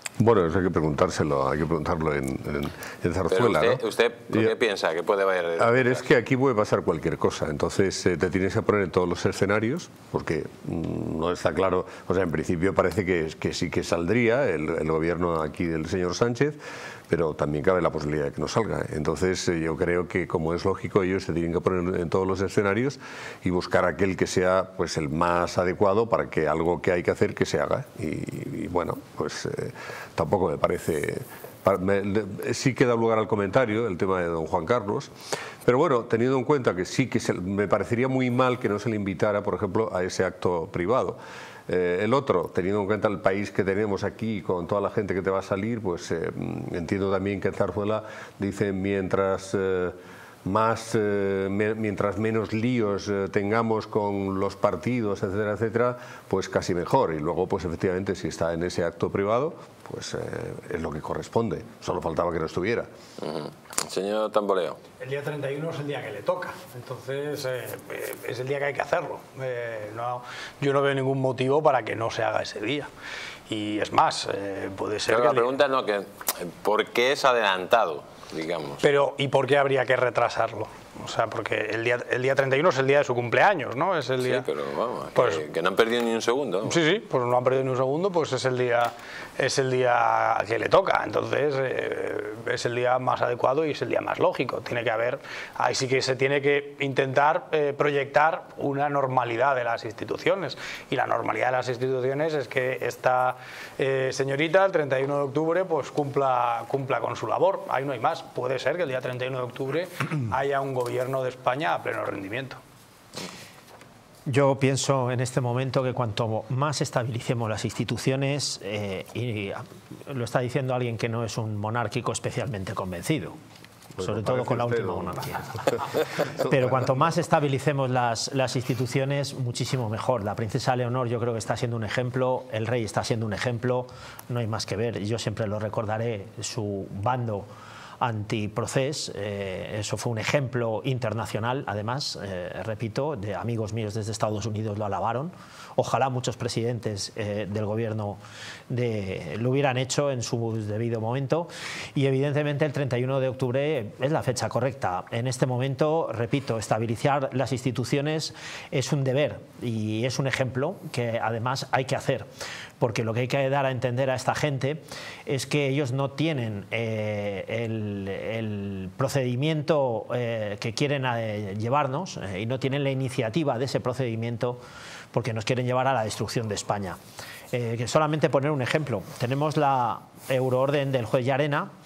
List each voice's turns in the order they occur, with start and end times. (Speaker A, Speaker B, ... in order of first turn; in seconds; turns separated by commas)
Speaker A: 0.2-4.5, Speaker B: 3.3-6.0, Speaker A: 5.6-35.1, Speaker A: 35.6-62.9, Speaker B: 63.2-64.8, Speaker C: 65.0-72.9, Speaker C: 73.5-75.5, Speaker B: 75.1-78.8, Speaker C: 78.8-84.5, Speaker B: 84.2-86.8, Speaker C: 85.1-85.5, Speaker C: 86.6-112.6, Speaker D: 114.3-123.3, Speaker A: 124.0-125.8, Speaker D: 124.0-125.6, Speaker D: 126.4-137.5, Speaker A: 126.4-126.8, Speaker D: 138.0-162.3, Speaker D: 162.8-174.6, Speaker D: 175.1-177.0, Speaker D: 177.5-181.7